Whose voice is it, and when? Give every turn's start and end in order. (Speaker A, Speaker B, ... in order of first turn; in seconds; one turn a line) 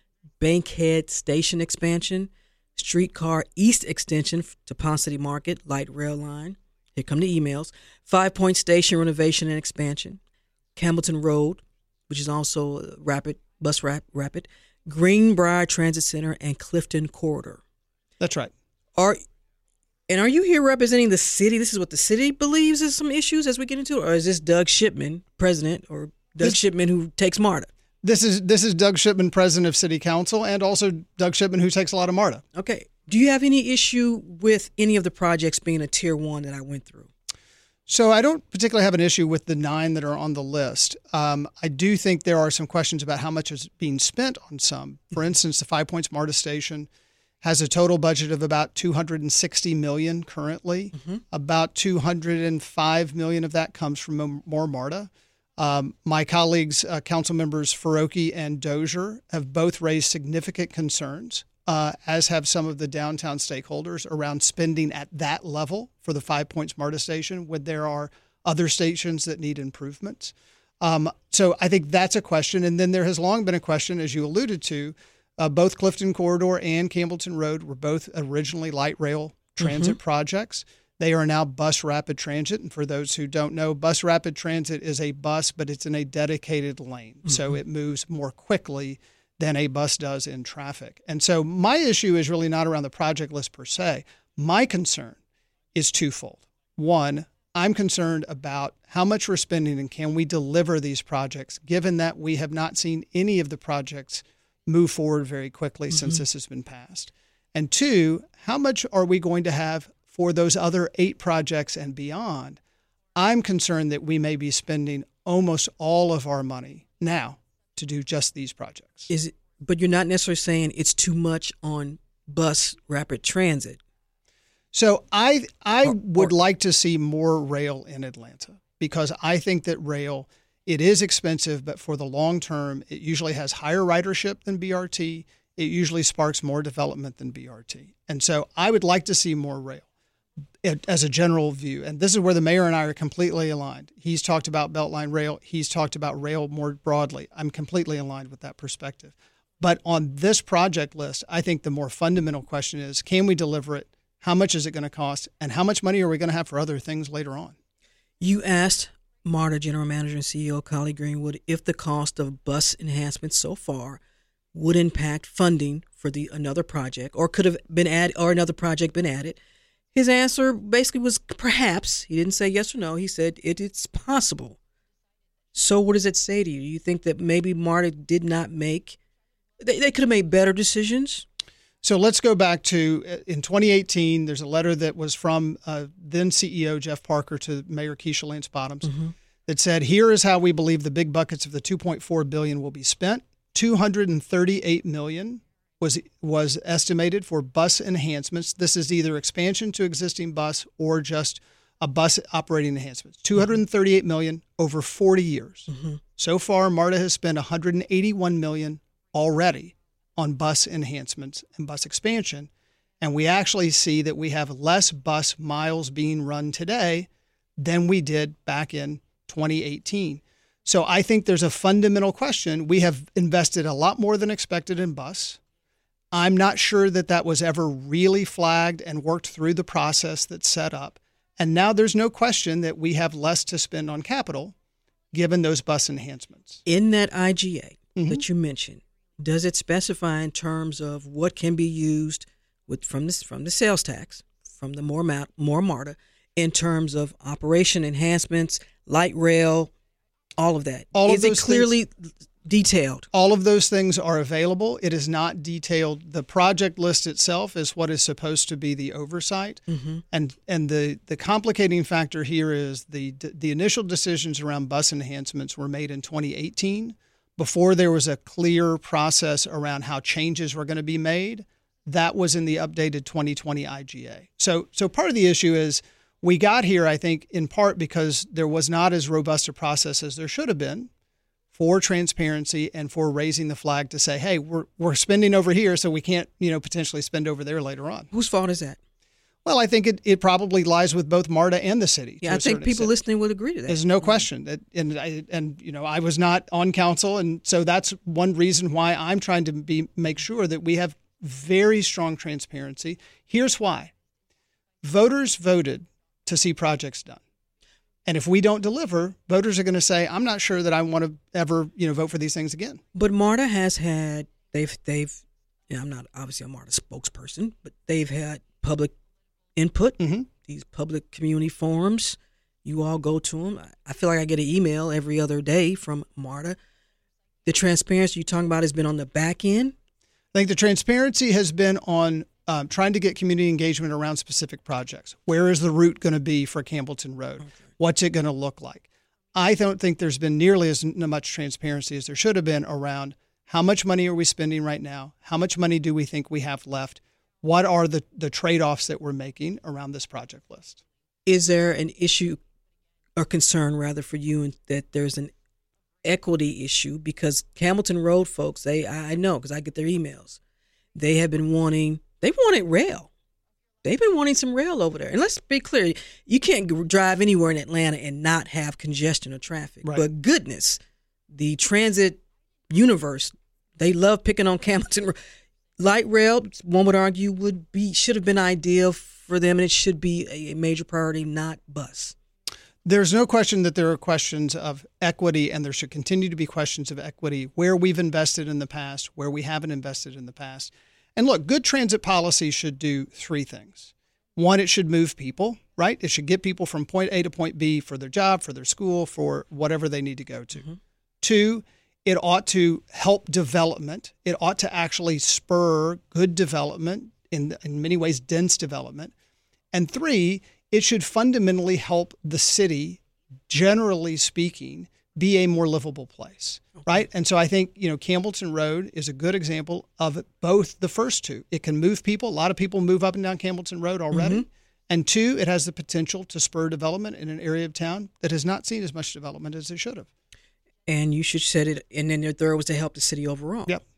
Speaker A: 0.4-10.2
Speaker A: 10.8-17.6
Speaker B: 18.2-18.5
Speaker A: 20.1-27.7
Speaker B: 28.0-32.4
Speaker A: 32.5-37.1
Speaker B: 37.9-46.9
Speaker B: 47.4-95.2
Speaker A: 50.9-51.2
Speaker A: 79.6-80.0
Speaker A: 87.3-87.5
Speaker B: 95.7-112.6
Speaker A: 105.9-106.2
Speaker B: 113.1-119.1
Speaker A: 119.1-123.8
Speaker B: 124.7-139.8
Speaker A: 125.8-126.3
Speaker B: 140.6-157.5
Speaker A: 158.2-164.0
Speaker A: 164.5-169.4
Speaker A: 169.9-174.6
Speaker A: 175.5-179.0
Speaker A: 179.6-181.2
Speaker B: 181.8-188.9
Speaker A: 188.8-189.1
Speaker B: 189.5-212.5
Speaker A: 205.7-206.0
Speaker B: 213.0-225.4
Speaker B: 226.1-234.5
Speaker B: 235.1-236.6
Speaker A: 236.7-249.7
Speaker B: 237.9-238.2
Speaker A: 250.4-253.1
Speaker B: 250.9-251.7
Speaker B: 253.1-280.9
Speaker A: 259.7-260.0
Speaker B: 281.5-288.1
Speaker A: 288.1-288.8
Speaker B: 289.4-292.9
Speaker A: 292.2-294.2
Speaker B: 293.7-303.9
Speaker B: 304.8-307.2
Speaker B: 308.0-312.8
Speaker A: 312.9-318.9
Speaker A: 319.6-326.6
Speaker B: 320.0-320.3
Speaker A: 327.4-329.7
Speaker B: 330.3-350.8
Speaker A: 351.2-352.4
Speaker A: 353.1-355.3
Speaker A: 356.0-360.4
Speaker A: 360.9-363.1
Speaker A: 363.8-370.8
Speaker A: 371.3-375.2
Speaker A: 375.8-382.1
Speaker B: 382.8-400.6
Speaker B: 401.2-409.1
Speaker B: 409.7-430.1
Speaker A: 424.1-424.4
Speaker A: 430.9-433.8